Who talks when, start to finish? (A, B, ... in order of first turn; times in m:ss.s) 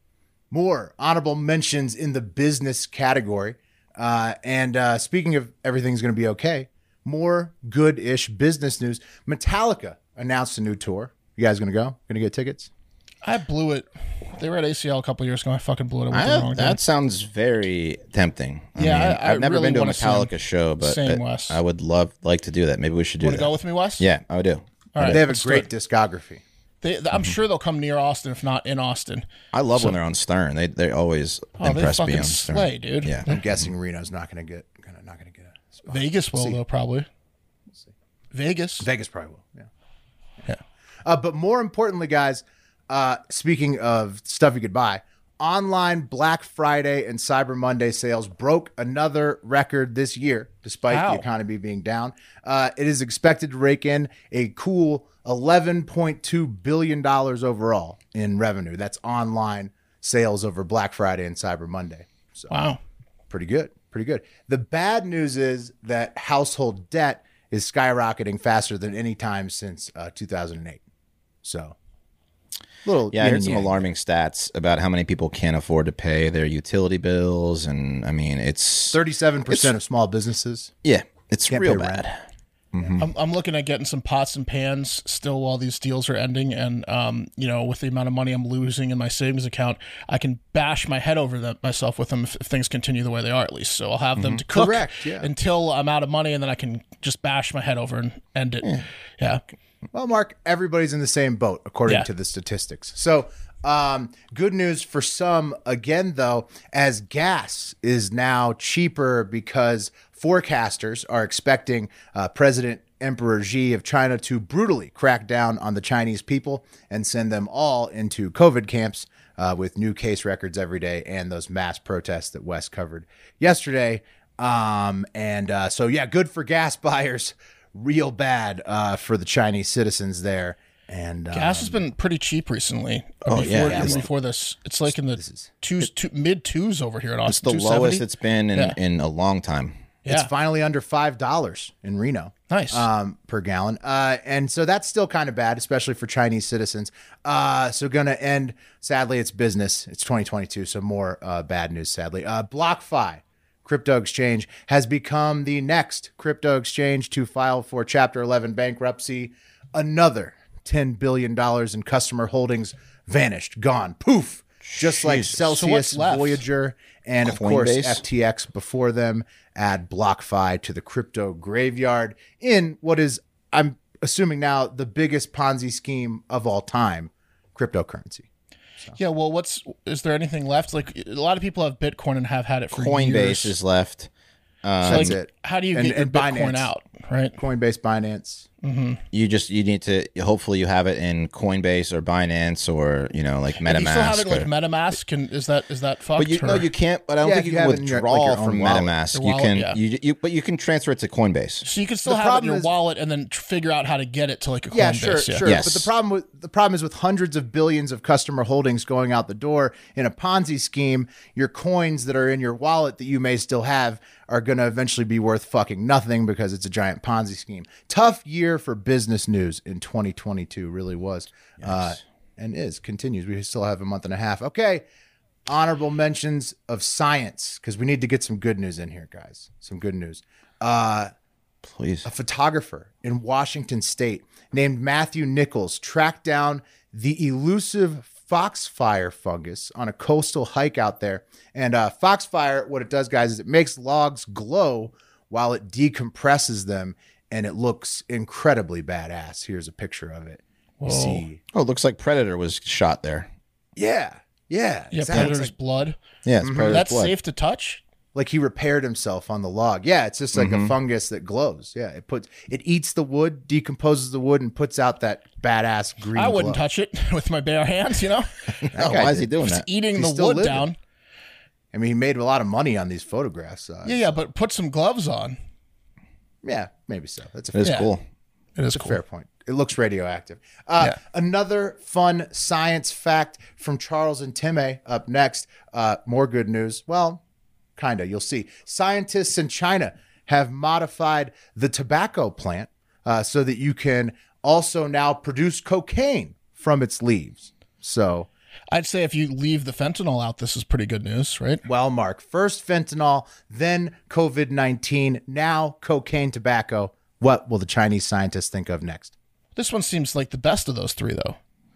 0:00.5-0:12.7 A
0:13.2-0:16.8 B
0:16.1-0:25.2 C
0:18.8-0:21.6 B
0:23.2-0:24.0 B
0:24.9-0:25.7 B
0:25.0-0:26.4 A
0:26.8-0:30.0 B
0:29.5-0:33.3 C
0:31.6-0:33.4 B
0:33.2-0:36.6 A
0:35.9-0:37.1 B
0:38.3-0:38.9 B
0:38.8-0:39.7 A
0:41.0-1:02.5 A
0:50.9-0:51.2 B
1:02.5-1:02.8 B
1:03.3-1:10.8 A
1:11.4-1:11.8 A
1:12.8-1:13.8 A
1:13.1-1:19.0 C
1:18.9-1:20.7 A
1:20.8-1:22.2 C
1:21.5-1:22.0 A
1:22.7-1:23.0 C
1:23.0-1:39.4 B
1:34.2-1:34.4 C
1:34.5-1:35.3 A
1:39.9-2:11.8 A
2:11.3-2:18.8 B
2:13.3-2:14.0 C
2:13.3-2:14.1 A
2:15.1-2:15.5 A
2:17.2-2:19.7 C
2:20.0-2:20.3 B
2:20.1-2:58.2 A
2:22.5-2:22.8 B
2:44.6-2:45.3 C
2:45.4-2:46.4 B
2:47.2-2:48.0 C
2:59.0-3:03.5 B
3:02.7-3:04.1 C
3:04.6-3:05.1 C
3:04.8-3:06.7 A
3:04.8-3:07.4 B
3:07.4-3:08.4 A
3:08.6-3:09.0 B
3:09.1-3:14.5 C
3:13.6-3:16.7 B
3:16.2-3:21.6 C
3:17.2-3:18.9 A
3:19.1-3:19.8 B
3:21.6-3:25.4 B
3:22.0-3:22.7 A
3:24.7-3:44.8 A
3:25.4-3:25.9 C
3:41.6-3:42.0 C
3:45.5-3:51.1 A
3:51.6-3:52.0 C
3:52.0-4:11.4 A
4:10.8-4:11.2 B
4:11.5-4:13.3 C
4:13.8-4:15.5 A
4:14.9-4:16.0 B
4:16.2-4:17.1 C
4:16.4-4:16.8 A
4:16.6-4:17.8 B
4:18.1-4:26.6 A
4:20.3-4:20.7 C
4:26.1-4:30.8 B
4:28.7-4:29.7 C
4:28.7-4:29.2 A
4:29.9-4:30.7 A
4:31.7-4:34.2 A
4:33.8-4:35.4 B
4:36.4-4:37.8 A
4:37.5-4:38.0 C
4:37.6-4:37.9 B
4:38.6-4:39.0 B
4:38.7-4:47.2 A
4:47.8-4:58.3 A
4:58.7-5:01.6 B
5:01.6-5:09.1 A
5:09.6-5:11.4 B